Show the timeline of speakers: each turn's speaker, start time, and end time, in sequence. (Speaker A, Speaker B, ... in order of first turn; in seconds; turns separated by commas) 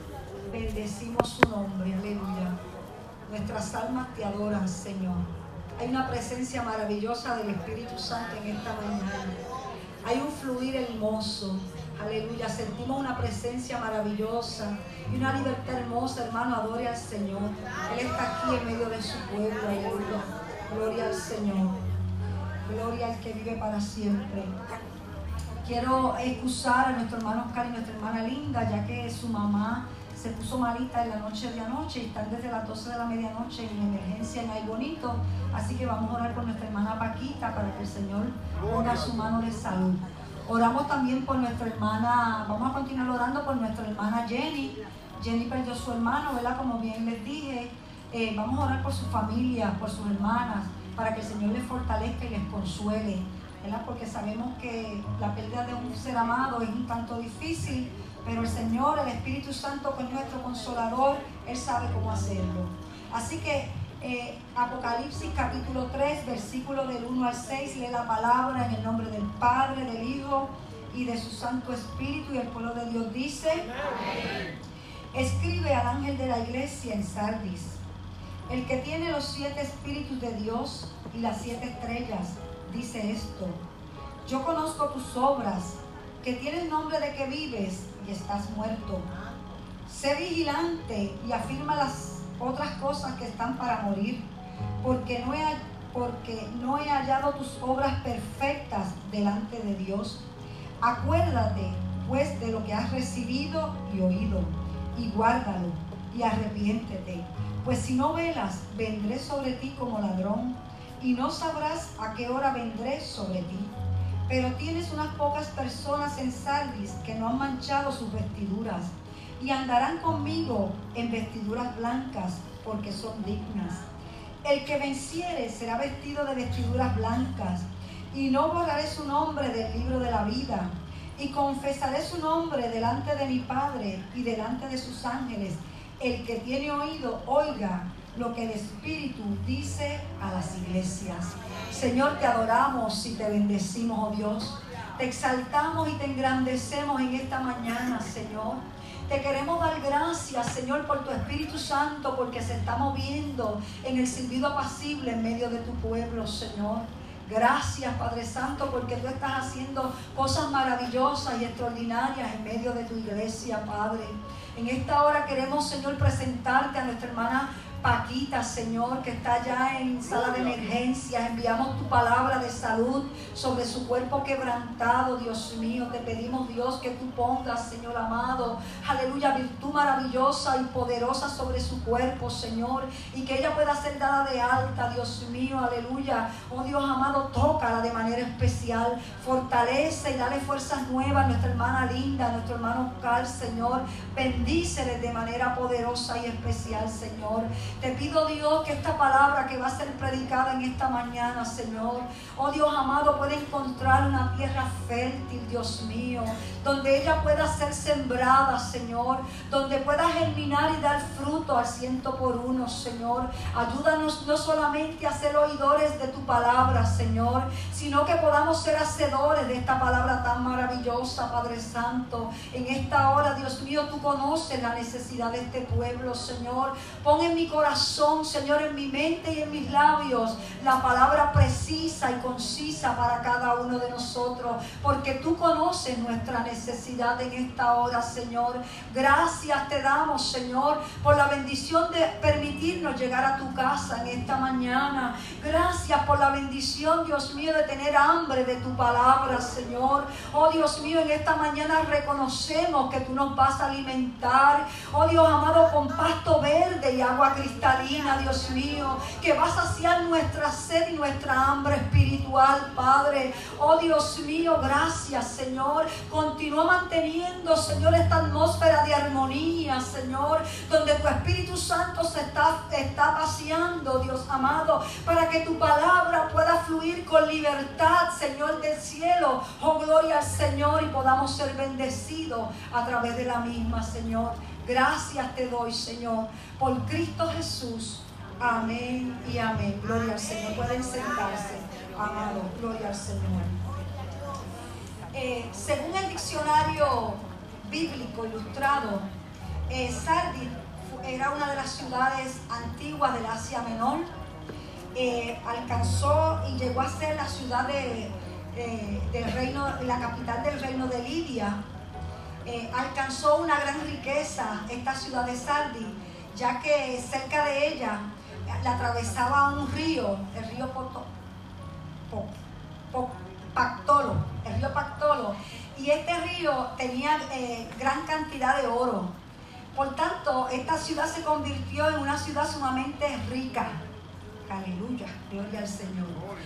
Speaker A: 0.5-2.6, Speaker A: 3.3-9.4, Speaker A: 10.0-21.8, Speaker A: 22.7-24.5, Speaker A: 25.6-73.7, Speaker A: 75.1-77.8, Speaker A: 78.5-83.6, Speaker A: 84.2-89.1, Speaker A: 89.9-94.2, Speaker A: 94.8-100.2, Speaker A: 100.8-113.7, Speaker A: 114.3-123.9, Speaker A: 124.4-293.6, Speaker A: 295.1-299.1, Speaker A: 299.7-304.1, Speaker A: 304.9-311.6, Speaker A: 312.4-321.1, Speaker A: 322.1-322.4, Speaker A: 322.9-329.1, Speaker A: 329.7-333.8, Speaker A: 334.4-336.2